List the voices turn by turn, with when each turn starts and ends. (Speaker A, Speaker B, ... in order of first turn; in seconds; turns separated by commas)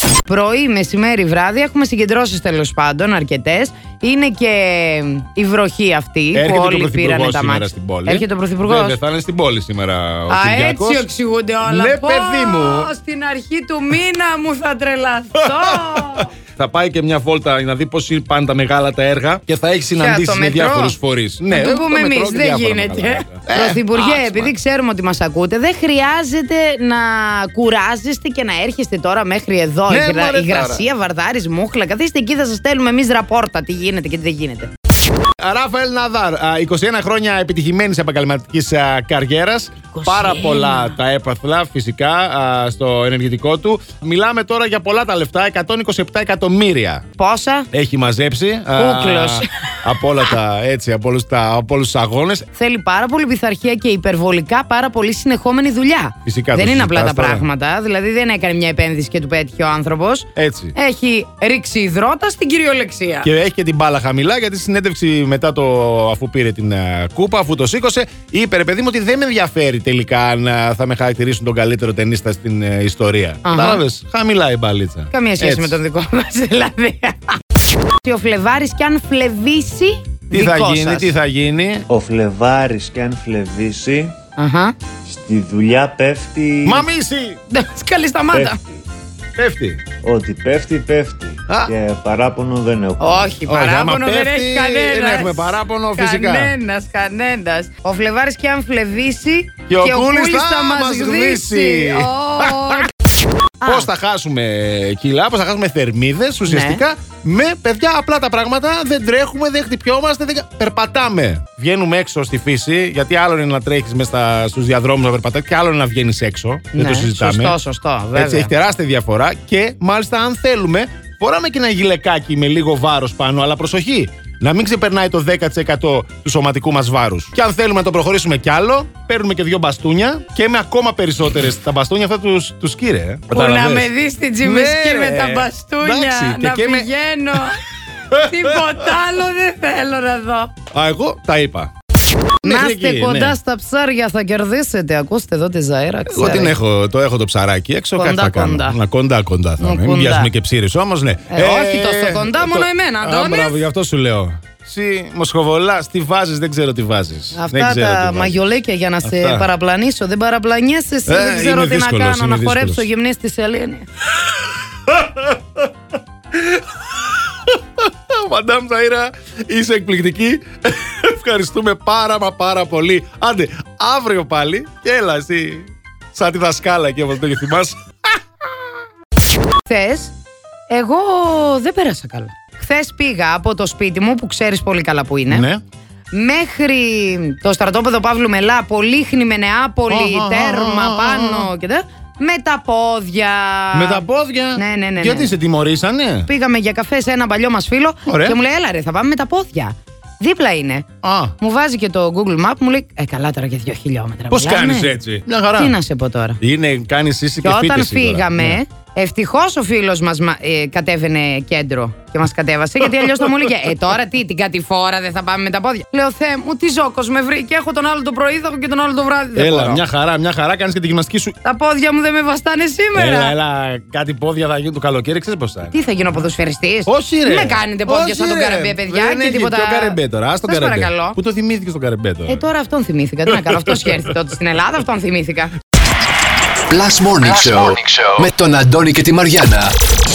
Speaker A: 0.3-9.0, Speaker B: 6.3-11.1, Speaker A: 10.3-16.3, Speaker B: 11.7-12.9, Speaker B: 15.4-24.5, Speaker A: 19.9-21.0, Speaker A: 21.5-34.7, Speaker B: 29.9-30.9, Speaker B: 35.4-47.1, Speaker A: 39.9-41.0, Speaker A: 47.2-47.7, Speaker B: 47.7-52.5, Speaker A: 48.7-49.5, Speaker A: 52.5-63.3, Speaker B: 56.2-57.5, Speaker B: 60.4-60.7, Speaker B: 63.2-75.8, Speaker A: 73.4-73.8, Speaker A: 75.1-77.4, Speaker A: 78.0-81.2, Speaker B: 80.3-81.9, Speaker C: 81.9-84.2, Speaker A: 84.4-84.7, Speaker C: 85.1-86.9, Speaker B: 86.7-87.4, Speaker A: 87.5-88.6, Speaker C: 88.3-88.6, Speaker B: 89.4-89.8, Speaker C: 90.0-93.3, Speaker B: 91.5-91.7, Speaker A: 93.0-102.9, Speaker B: 93.5-96.6, Speaker B: 99.7-102.9, Speaker A: 103.6-103.9, Speaker B: 103.6-117.6, Speaker A: 106.5-106.8, Speaker A: 116.7-118.5, Speaker B: 118.2-133.9, Speaker A: 133.3-137.6, Speaker B: 134.4-137.4, Speaker A: 138.1-140.5, Speaker B: 138.1-138.9, Speaker B: 140.7-141.7, Speaker B: 142.4-143.4, Speaker A: 142.4-146.6, Speaker B: 146.1-158.4, Speaker A: 148.0-148.8, Speaker A: 149.6-150.3, Speaker A: 151.3-153.6, Speaker A: 157.3-163.8, Speaker B: 159.0-159.5, Speaker B: 161.1-162.9, Speaker B: 164.9-165.7, Speaker B: 166.3-166.7, Speaker B: 167.5-177.8, Speaker A: 179.7-180.2, Speaker A: 180.7-185.5, Speaker B: 185.3-185.6, Speaker A: 186.1-195.3, Speaker B: 189.9-191.5, Speaker B: 193.7-196.3, Speaker A: 196.3-200.9, Speaker B: 198.1-198.4, Speaker B: 201.0-201.3, Speaker A: 201.4-204.9, Speaker B: 204.3-205.8, Speaker A: 205.6-206.4, Speaker B: 206.4-208.6, Speaker A: 207.4-219.8, Speaker B: 213.0-213.3, Speaker B: 219.4-221.3, Speaker A: 221.4-223.3, Speaker B: 222.9-225.8, Speaker A: 225.7-231.2, Speaker B: 226.9-232.5, Speaker A: 232.3-235.5, Speaker B: 233.3-234.1, Speaker D: 236.7-239.8